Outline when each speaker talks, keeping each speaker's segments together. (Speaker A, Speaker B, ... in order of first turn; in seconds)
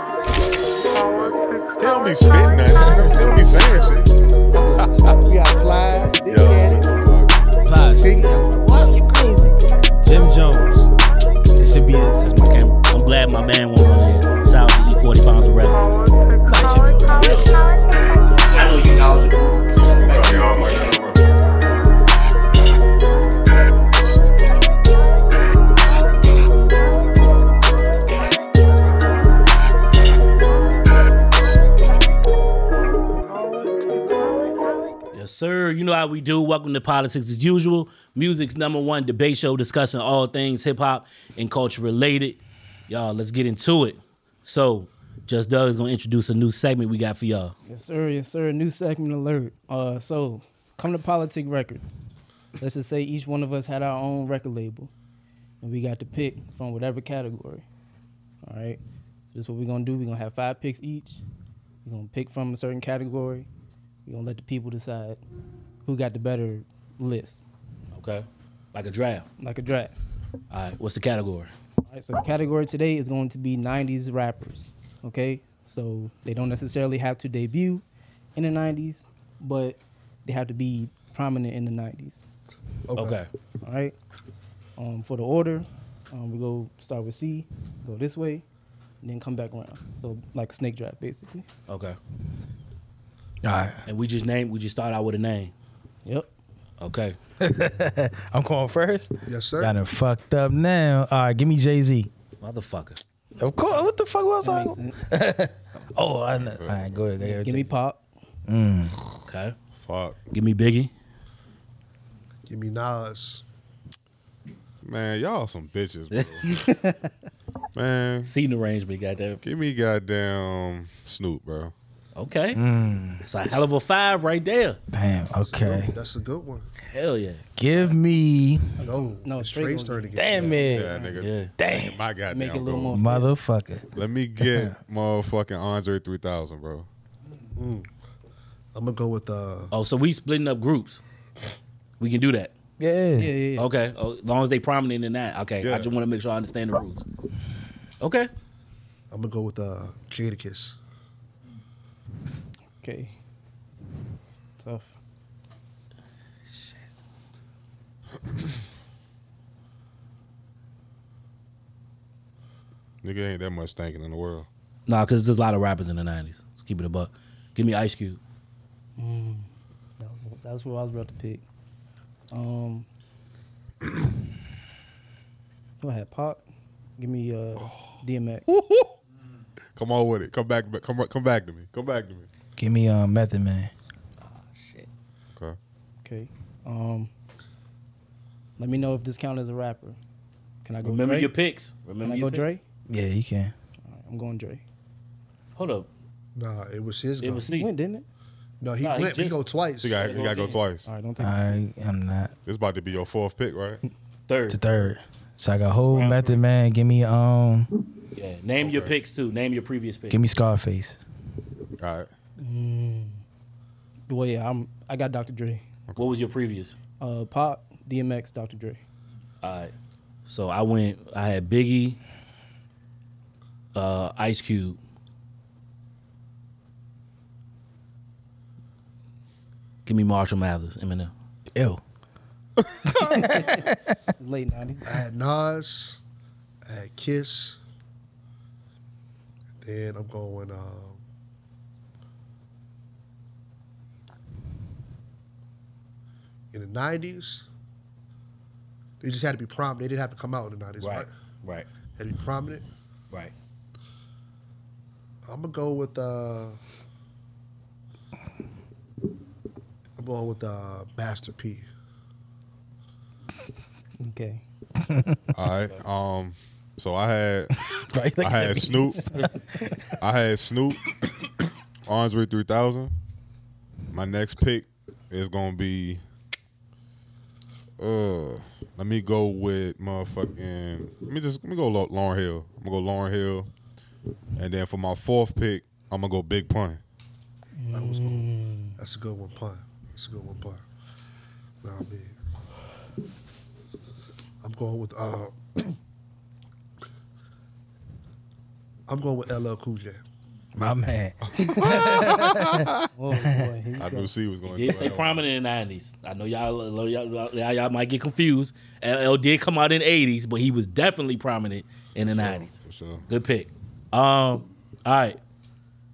Speaker A: 1.1-4.1, 4.8-5.2, 6.3-7.4, 19.8-21.2, 106.3-107.0, 109.8-110.2, 114.8-116.5, 117.7-118.3, 119.4-121.7, 130.5-133.0, 133.9-136.9, 145.6-145.9, 163.0-164.5, 177.6-177.9, 178.5-178.9, 179.8-182.3, 199.8-200.9, 202.4-203.8, 208.6-208.9, 211.8-212.1, 232.6-233.1, 265.3-267.6, 268.2-269.1, 270.0-270.9, 271.9-272.9, 273.9-276.0, 277.8-283.5, 284.4-286.8, 301.3-302.9, 303.8-305.2, 312.0-313.0
Speaker B: 2.7-3.5, 7.6-10.9, 11.6-12.2, 16.4-17.6, 93.4-93.8, 97.4-102.1, 103.4-107.7, 108.5-109.0, 122.5-123.2, 124.9-125.9, 127.5-128.8, 130.1-130.9, 131.6-132.0, 132.9-134.8, 142.8-143.3, 182.6-183.7, 192.9-193.5, 201.2-202.3, 204.5-207.7, 210.1-211.0, 231.5-231.8, 232.8-234.0, 264.8-265.3, 267.5-270.0, 300.6-303.5
Speaker C: 4.5-6.9, 8.0-8.3, 82.9-83.2, 99.3-99.7, 112.5-113.4, 125.4-126.7, 128.8-130.6, 137.6-137.9, 138.7-139.7, 149.1-150.8, 196.3-197.4, 198.6-199.9, 234.8-236.0, 236.7-237.6, 239.6-241.0, 246.5-247.5, 249.0-251.1, 252.0-252.7, 255.2-256.6, 260.0-261.6, 287.7-290.6, 291.6-292.1, 294.4-295.8, 298.9-300.0
Speaker D: 12.2-15.8, 16.5-17.5, 18.5-19.4, 20.0-20.9, 35.1-47.5, 67.9-69.3, 70.5-71.5, 83.0-83.3, 91.7-92.0, 93.9-95.5, 96.8-97.2, 102.4-103.0, 109.2-109.5, 110.3-110.9, 118.2-119.4, 122.2-122.6, 123.2-124.8, 126.8-127.5, 131.2-131.5, 139.7-141.0, 142.0-142.5, 143.6-147.1, 148.0-148.3, 164.9-168.2, 184.2-184.9, 190.8-192.5, 195.6-195.9, 197.2-197.7, 198.8-199.4, 199.9-200.6, 204.3-204.6, 205.9-206.4, 208.1-210.3, 216.0-216.7, 219.4-219.7, 220.3-222.0, 223.7-224.8, 229.8-231.1, 250.8-251.7, 304.5-312.5, 313.1-315.2
Speaker E: 47.7-52.0, 52.6-54.9, 55.6-57.6, 58.4-58.8, 59.3-61.2, 61.8-63.5, 64.0-65.2, 65.8-67.4, 69.4-69.9, 71.9-77.8, 78.3-82.2, 83.6-84.0, 84.8-88.4, 89.0-91.5, 104.4-105.1, 107.2-108.0, 116.4-117.1, 128.8-131.2, 132.3-133.3, 143.2-143.7, 152.8-153.1, 154.5-154.9, 169.0-169.5, 170.0-171.4, 172.3-172.9, 175.8-176.4, 177.0-178.5, 186.0-187.1, 188.6-190.0, 190.6-191.3, 192.0-192.6, 193.8-194.6, 197.5-198.1, 200.8-201.4, 212.4-213.2, 214.1-215.6, 217.0-218.8, 233.0-235.0, 264.0-264.4, 287.6-288.8, 302.9-304.1